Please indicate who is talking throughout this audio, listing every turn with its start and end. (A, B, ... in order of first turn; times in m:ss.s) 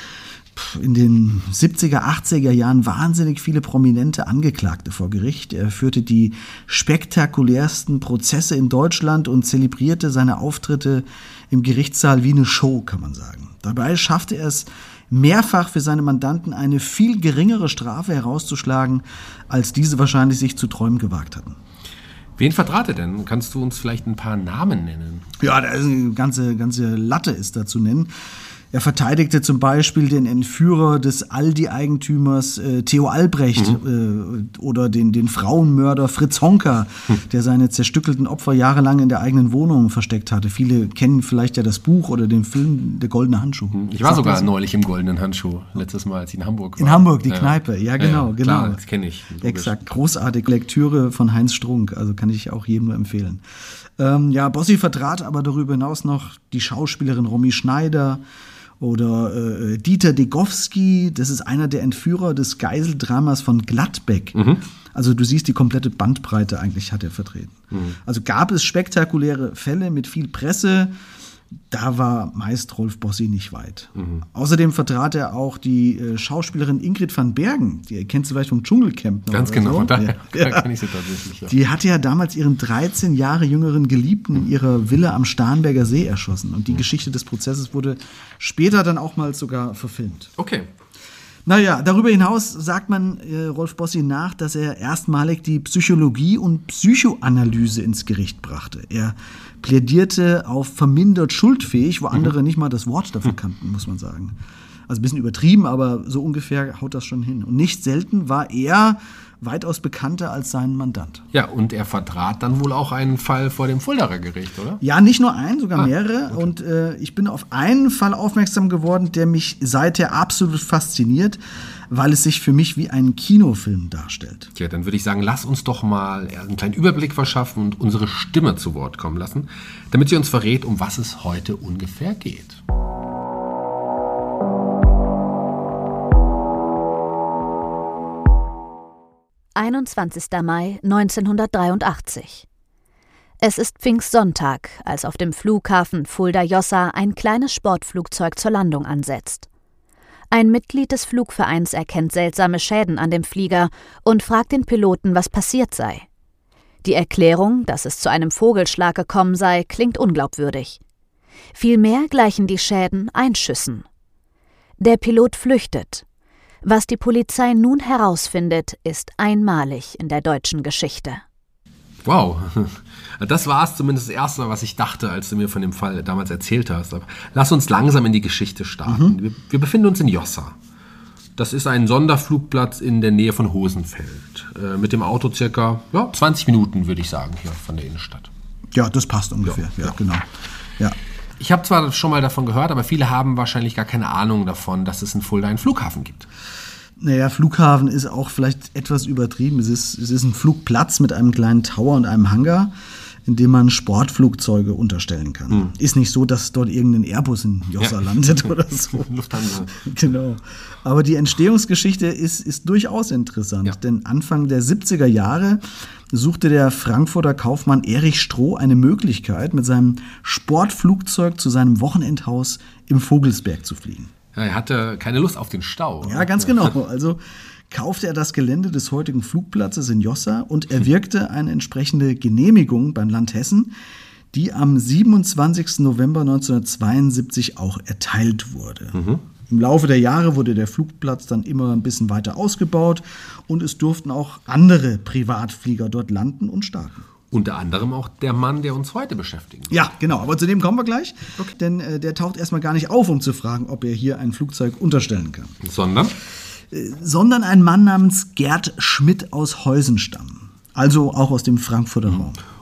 0:00.5-0:21.6 A
0:22.4-0:25.3 B
0:25.4-0:28.1 A
0:28.7-0:44.5 A
0:43.7-0:49.8 B
0:46.8-0:48.8 A
0:49.4-0:53.4 A
0:54.0-0:58.2 A
0:58.8-1:04.4 A
1:04.3-1:04.6 B
1:04.9-1:10.9 A
1:07.7-1:08.0 B
1:11.7-1:20.6 A
1:14.0-1:14.2 B
1:19.3-1:21.5 B
1:21.5-1:30.3 A
1:30.4-1:30.7 B
1:31.4-1:44.4 A
1:44.9-1:51.2 A
1:51.3-1:54.8 B
1:54.8-2:04.5 A
2:04.5-2:12.6 B
2:19.5-2:22.4 C
2:23.4-2:29.4 C
2:30.3-2:36.0 C
2:36.8-2:40.8 C
2:41.5-2:43.8 C
2:44.8-2:46.0 C
2:46.6-2:51.2 C
2:52.0-3:00.6 B
2:58.8-2:59.2 A
3:01.4-3:08.3 B
3:08.7-3:10.3 A
3:11.4-3:16.3 B
3:17.0-3:22.7 A
3:23.2-3:29.1 A
3:27.8-3:28.2 B
3:28.9-3:29.8 B
3:29.7-3:44.1 A
3:44.3-3:46.7 B
3:46.0-3:47.2 A
3:47.7-3:53.7 A
3:54.3-4:07.0 A
3:58.9-3:59.2 B
4:07.3-4:09.7 B
4:09.7-4:15.6 A
4:15.6-4:16.1 B
4:16.7-4:22.4 A